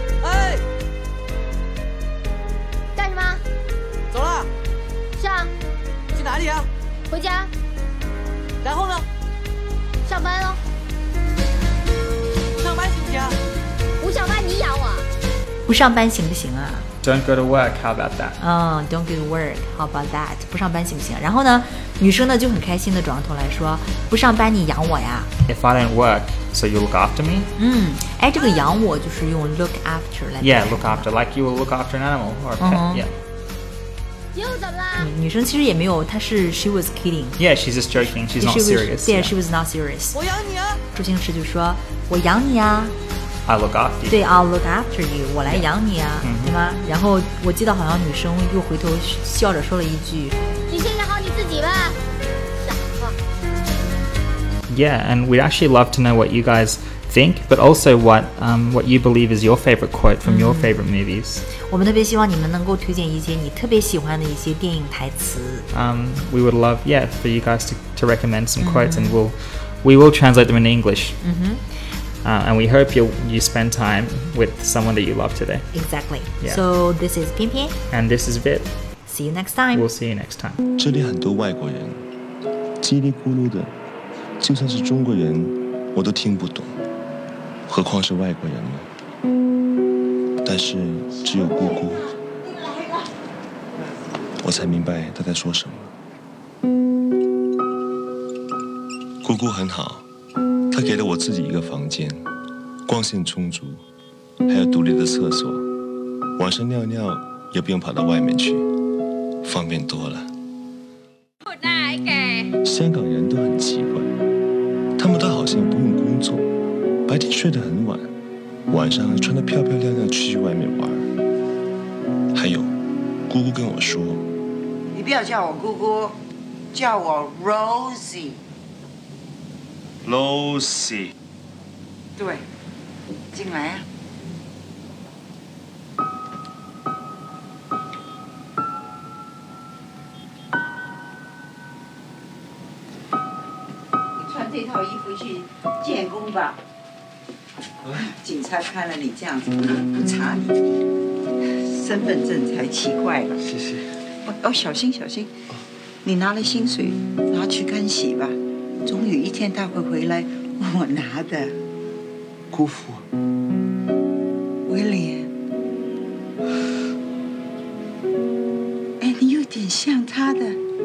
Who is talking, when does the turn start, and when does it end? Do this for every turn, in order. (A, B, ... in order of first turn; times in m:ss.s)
0:00.2-0:00.6 A
0:02.9-0:03.4 B
0:04.1-0:04.5 A
0:05.2-0:05.5 B
0:06.1-0:06.7 A
0:07.1-0:07.5 B
0:08.6-0:09.0 A
0:10.0-0:10.6 B
0:12.6-0:13.4 A
0:14.0-0:15.1 B
0:15.6-0:16.9 C
0:17.0-0:18.4 D
0:18.4-0:25.3 C
0:25.5-0:27.5 D
0:27.6-0:31.1 C
0:30.4-0:33.1 D
0:32.6-0:33.0 C
0:34.3-0:35.1 B
0:35.0-0:37.4 C
0:37.4-0:39.3 D
0:38.4-0:40.2 C
0:40.1-0:40.8 A
0:40.9-0:42.9 C
0:43.4-0:44.2 D
0:44.1-0:50.4 C
0:46.2-0:46.6 D
0:50.7-0:52.0 B
0:52.6-0:53.2 B
0:54.7-1:01.4 D
1:00.2-1:00.8 C
1:01.6-1:05.7 C
1:05.7-1:11.2 D
1:08.6-1:09.2 C
1:11.2-1:11.6 C
1:12.2-1:15.7 D
1:15.7-1:17.8 C
1:17.9-1:18.7 D
1:19.0-1:19.9 C
1:19.7-1:20.6 D
1:20.8-1:22.0 E
1:22.8-1:23.7 E
1:24.4-1:26.8 E
1:27.7-1:28.9 E
1:30.4-1:32.1 E
1:34.4-1:35.9 E
1:39.2-1:40.0 E
1:40.7-1:42.3 E
1:42.9-1:43.8 E
1:44.5-1:45.7 E
1:46.4-1:48.7 E
1:49.4-1:50.3 E
1:52.6-1:54.1 E
1:55.0-1:56.5 E
1:57.1-1:58.1 E
1:58.7-2:01.1 E
2:02.3-2:02.7 E
2:03.3-2:04.2 E
2:04.9-2:06.2 F
2:06.7-2:08.4 F
2:10.0-2:11.1 E
2:12.2-2:12.4 F
2:13.3-2:13.8 F
2:24.2-2:26.6 F
2:27.9-2:30.5 F
2:31.5-2:33.4 F
2:34.2-2:35.3 F
2:36.0-2:38.4 F
2:38.9-2:41.5 F
2:42.5-2:43.0 E
2:44.7-2:45.3 F
2:49.0-2:50.6 F